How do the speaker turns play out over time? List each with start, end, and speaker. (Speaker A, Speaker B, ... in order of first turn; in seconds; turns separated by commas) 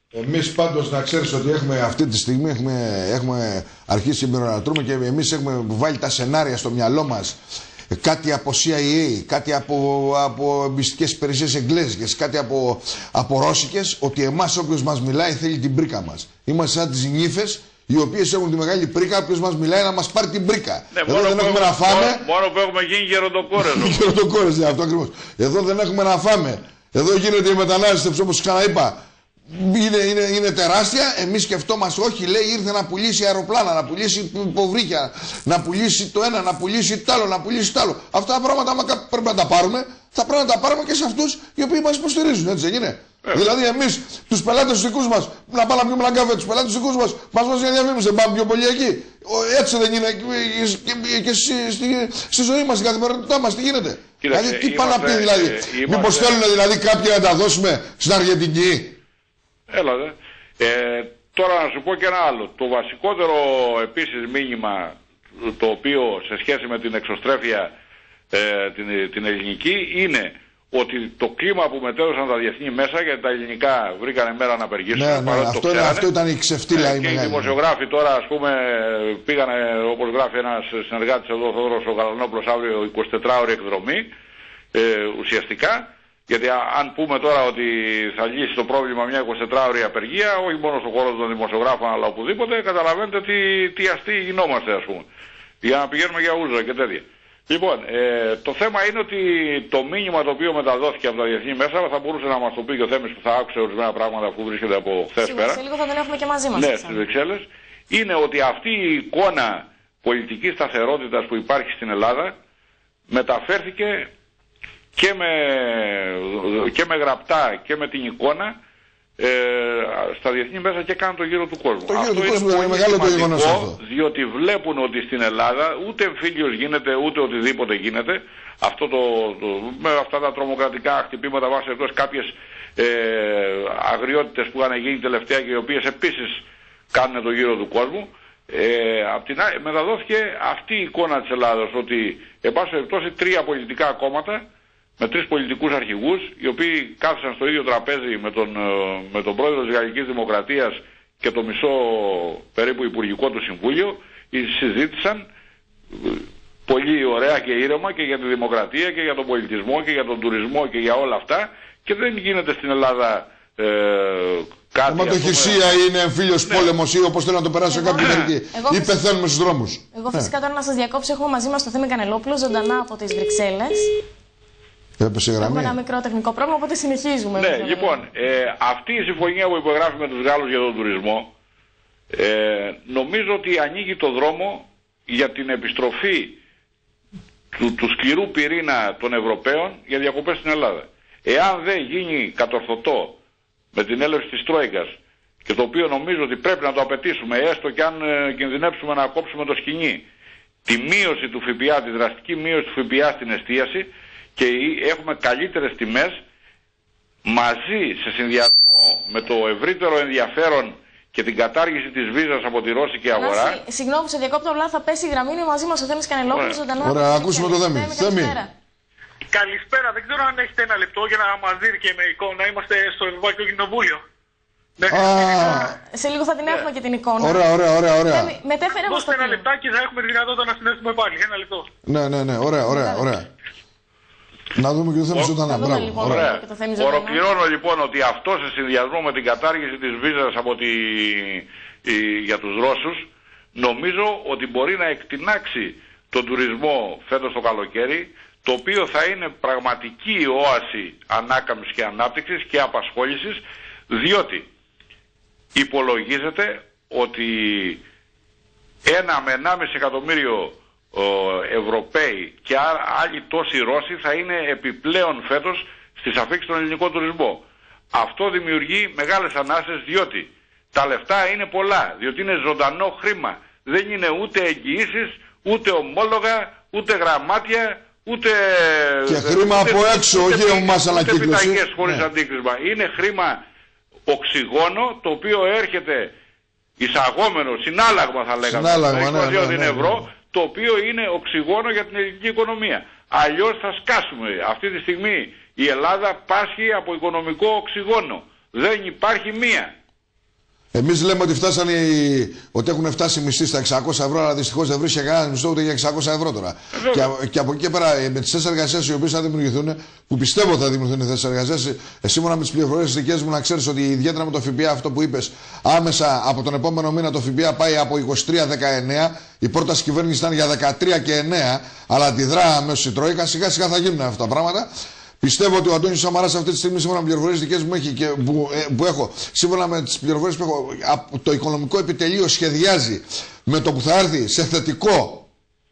Speaker A: 0.1-7.4, Speaker A: 7.9-22.2, Speaker B: 20.9-24.0, Speaker A: 23.6-59.0, Speaker B: 54.2-56.4, Speaker B: 59.7-67.7, Speaker B: 68.3-76.1, Speaker A: 74.9-77.5, Speaker B: 76.7-84.1, Speaker B: 84.7-95.1, Speaker B: 95.6-105.6, Speaker C: 105.2-107.0, Speaker B: 106.5-112.3, Speaker B: 113.1-114.1, Speaker B: 115.0-118.6, Speaker B: 119.2-144.5, Speaker A: 121.9-123.8, Speaker B: 145.0-155.3, Speaker B: 155.9-165.7, Speaker A: 164.9-170.3, Speaker C: 167.7-169.0, Speaker B: 168.0-168.3, Speaker C: 169.9-173.9, Speaker A: 175.0-175.8, Speaker C: 175.4-178.0, Speaker B: 177.4-181.3, Speaker B: 182.1-186.4, Speaker B: 187.5-193.2, Speaker B: 193.7-200.1, Speaker B: 200.7-206.2, Speaker B: 207.2-213.6, Speaker C: 213.2-218.5, Speaker B: 216.3-216.6, Speaker A: 216.8-218.4, Speaker D: 219.3-224.0, Speaker D: 224.8-225.7, Speaker A: 224.9-225.7, Speaker C: 225.4-227.4, Speaker A: 227.2-228.3, Speaker C: 228.1-229.5, Speaker D: 228.9-231.7, Speaker A: 231.9-233.3, Speaker C: 232.7-233.1, Speaker A: 234.6-236.3, Speaker B: 235.1-254.5, Speaker C: 235.5-237.2, Speaker B: 255.6-257.8, Speaker B: 258.9-283.4, Speaker A: 279.1-282.1, Speaker B: 284.1-286.1, Speaker B: 286.8-299.8, Speaker A: 288.4-290.1, Speaker A: 300.7-324.7, Speaker B: 306.8-307.1, Speaker A: 325.2-335.3